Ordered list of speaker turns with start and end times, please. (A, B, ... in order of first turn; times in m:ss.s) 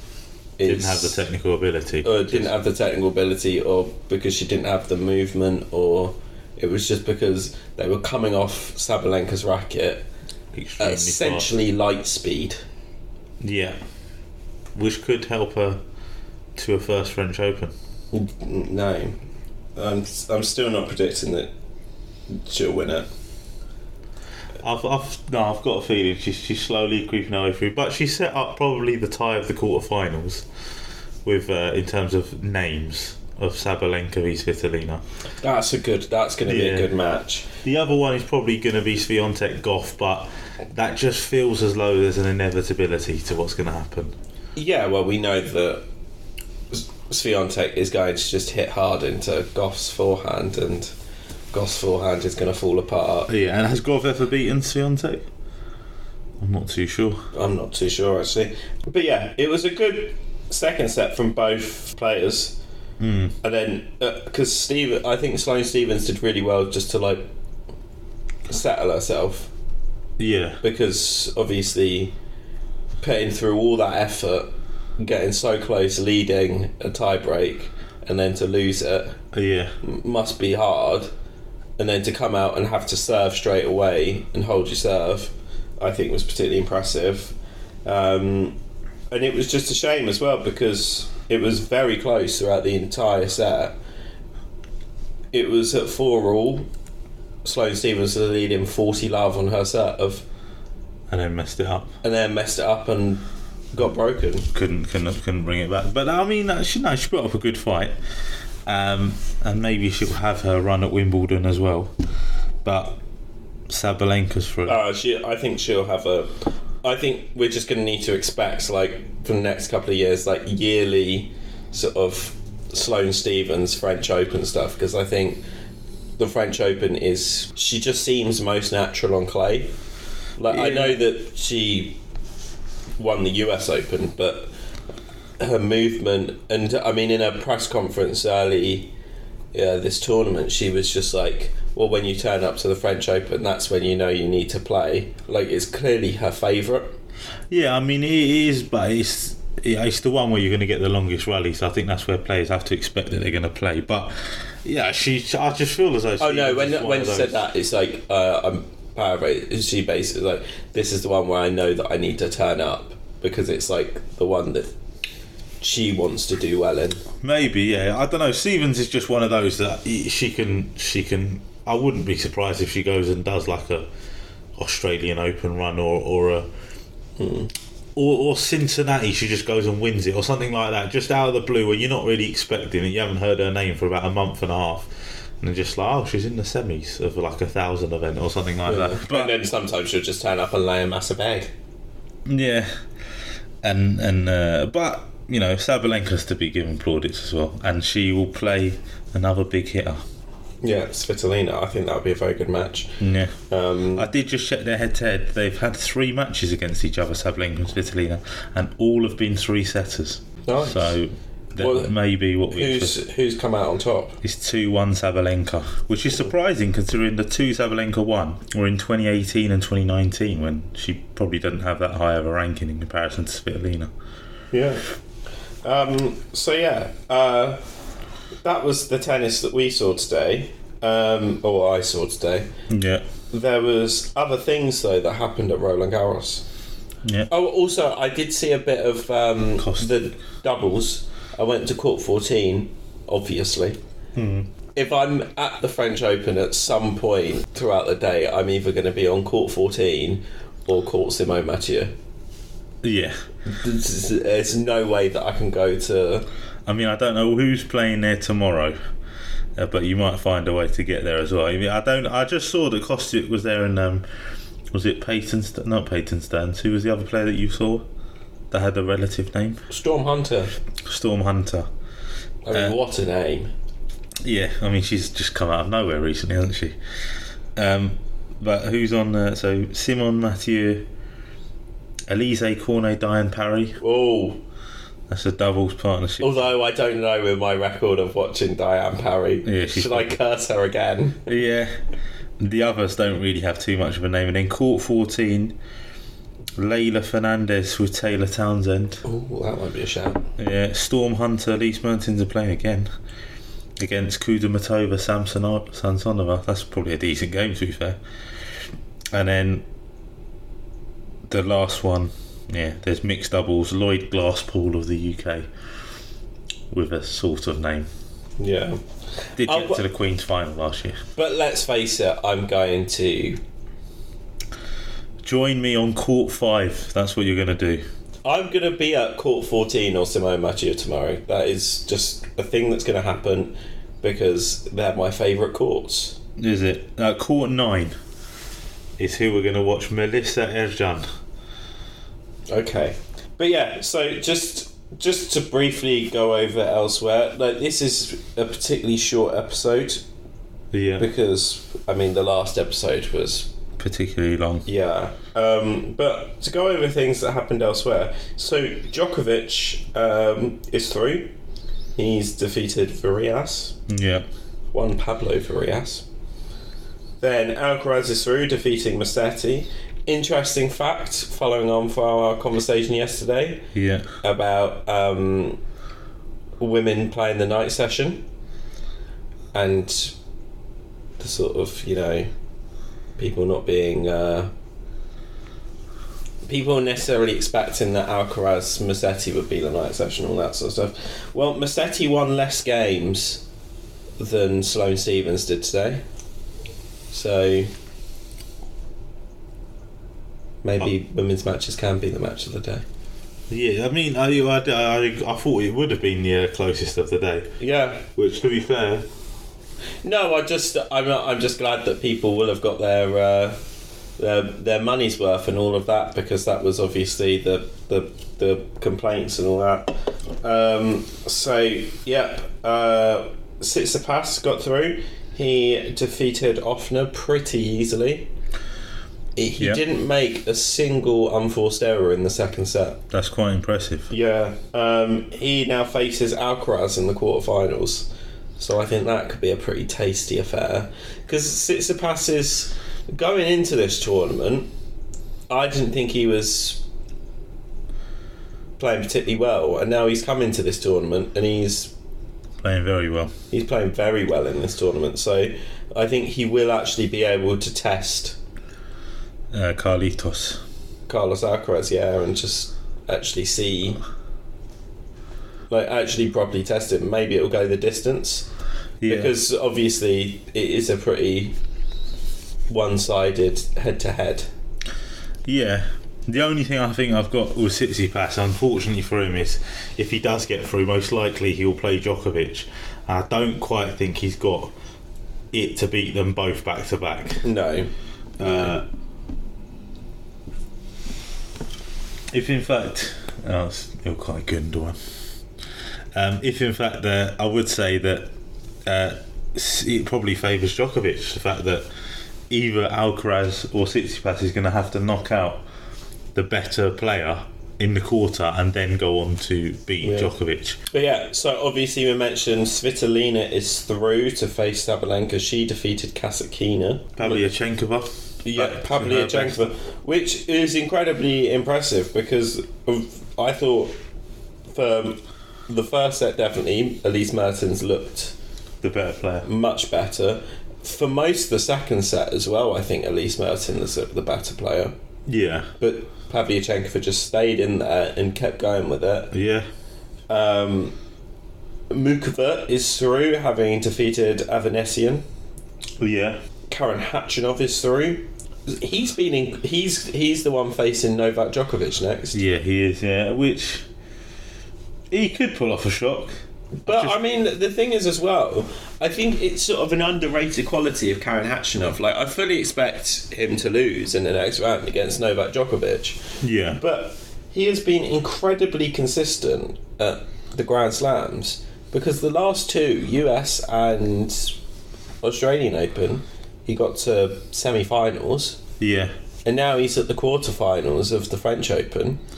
0:00.6-0:01.2 A
0:00.6-0:02.5 B
0:02.0-0:10.0 A
0:10.5-0:11.5 B
0:10.8-0:12.6 A
0:13.4-0:13.8 B
0:14.7-0:15.8 B
0:16.6-0:17.7 B
0:18.1-0:19.2 A
0:19.8-0:21.5 A
0:22.3-0:23.1 A
0:24.6-0:30.4 B
0:31.2-0:35.0 B
0:35.4-0:37.5 A
0:36.4-0:36.9 B
0:37.6-0:44.1 B
0:44.6-0:45.8 A
0:46.7-0:50.9 A
0:51.5-0:53.3 A
0:53.3-0:55.2 B
0:56.4-0:57.2 B
0:57.3-1:02.6 A
1:03.0-1:03.4 B
1:03.4-1:07.3 A
1:08.5-1:09.5 A
1:10.2-1:10.6 B
1:10.6-1:12.1 A
1:13.0-1:14.5 A
1:15.0-1:19.2 A
1:19.3-1:19.7 B
1:19.8-1:21.1 A
1:21.8-1:27.3 A
1:27.8-1:28.6 A
1:29.1-1:33.7 A
1:35.3-1:36.7 A
1:37.4-1:40.2 A
1:41.1-1:41.9 B
1:42.0-1:43.2 A
1:43.7-1:44.5 A
1:44.5-1:47.9 B
1:48.6-1:51.9 B
1:52.6-1:53.0 B
1:53.7-1:54.8 B
1:54.7-1:56.3 A
1:56.8-2:05.4 A
2:06.2-2:09.7 A
2:10.4-2:12.0 A
2:10.5-2:11.0 B
2:13.0-2:14.5 A
2:15.4-2:18.9 A
2:19.5-2:26.9 A
2:27.5-2:37.4 B
2:36.2-2:44.7 A
2:45.6-2:47.0 A
2:47.2-2:53.9 B
2:54.6-2:56.5 B
2:57.2-2:57.5 A
2:58.0-3:04.9 B
3:05.4-3:09.3 B
3:08.6-3:11.5 A
3:12.3-3:12.7 B
3:13.6-3:20.0 B
3:20.6-3:24.1 A
3:23.0-3:23.3 B
3:23.9-3:33.0 B
3:30.4-3:31.0 A
3:31.6-3:31.9 A
3:32.5-3:34.2 A
3:34.2-3:43.9 B
3:44.5-3:44.8 A
3:45.6-3:47.6 A
3:48.4-3:52.5 A
3:52.7-3:53.0 B
3:53.3-3:56.4 A
3:57.3-4:03.8 A
3:59.6-3:59.9 B
4:04.2-4:04.5 B
4:04.7-4:11.9 A
4:12.8-4:13.1 B
4:13.4-4:16.2 A
4:16.7-4:18.8 B
4:19.6-4:24.0 B
4:24.7-4:27.8 B
4:28.5-4:29.6 B
4:29.7-4:30.5 A
4:30.8-4:31.6 B
4:32.4-4:33.5 A
4:34.2-4:36.8 B
4:37.6-4:40.9 B
4:42.1-4:43.8 B
4:43.8-4:44.4 A
4:45.1-4:46.5 B
4:46.2-4:51.3 A
4:49.4-4:50.1 B
4:51.3-4:51.7 B
4:52.4-4:55.5 B
4:56.6-4:59.0 B
4:59.0-5:00.2 A
5:00.4-5:02.9 B
5:03.8-5:08.0 B
5:09.1-5:09.6 B
5:11.3-5:15.5 B
5:16.7-5:17.9 B
5:18.4-5:18.8 A
5:19.4-5:21.0 B
5:19.4-5:19.8 A
5:21.2-5:23.4 A
5:25.2-5:27.8 B
5:28.2-5:36.2 A
5:36.4-5:37.9 B
5:39.0-5:41.0 B
5:42.5-5:50.0 A
5:50.7-5:51.0 B
5:51.0-5:53.5 A
5:53.8-5:54.6 B
5:54.6-6:01.3 A
6:02.0-6:03.8 A
6:03.9-6:04.2 B
6:04.7-6:06.0 A
6:07.2-6:13.6 A
6:13.7-6:14.0 B
6:14.2-6:15.6 A
6:16.6-6:18.2 A
6:19.5-6:20.1 A
6:21.2-6:22.3 A
6:23.2-6:24.5 A
6:26.4-6:33.4 A
6:34.2-6:36.0 A
6:37.1-6:37.7 A
6:40.6-6:42.8 A
6:43.5-6:47.5 B
6:47.6-6:48.0 A
6:48.2-6:49.1 B
6:50.0-6:53.6 A
6:54.2-7:08.3 A
7:09.4-7:13.0 A
7:13.1-7:14.1 B
7:14.1-7:18.1 A
7:18.6-7:24.7 A
7:25.5-7:26.8 A
7:28.8-7:31.9 A
7:32.6-7:33.3 B
7:33.5-7:38.4 A
7:39.5-7:40.6 B
7:41.1-7:44.0 A
7:45.7-7:48.5 A
7:49.0-7:49.3 B
7:49.0-7:51.6 A
7:52.7-7:54.5 A
7:55.5-8:04.7 B
8:05.5-8:07.4 B
8:07.4-8:07.9 A
8:08.4-8:08.8 B
8:08.4-8:08.7 A
8:12.3-8:15.0 B
8:16.1-8:18.3 B
8:18.8-8:21.8 B
8:22.5-8:25.6 B
8:26.3-8:30.8 B
8:30.0-8:30.3 A
8:30.9-8:37.4 A
8:37.2-8:39.6 B
8:38.4-8:43.9 A
8:44.7-8:48.3 A
8:48.8-8:49.4 B
8:49.4-8:54.9 A
8:55.3-8:55.7 B
8:55.8-8:59.3 A
8:59.3-8:59.6 B
9:00.3-9:01.0 A
9:01.9-9:05.2 A
9:06.0-9:06.4 B
9:06.7-9:12.4 A
9:12.3-9:13.8 B
9:15.1-9:17.2 B
9:16.8-9:26.2 A
9:26.4-9:26.8 B
9:26.8-9:34.6 A
9:35.2-9:38.6 A
9:38.8-9:39.1 B
9:39.4-9:42.2 A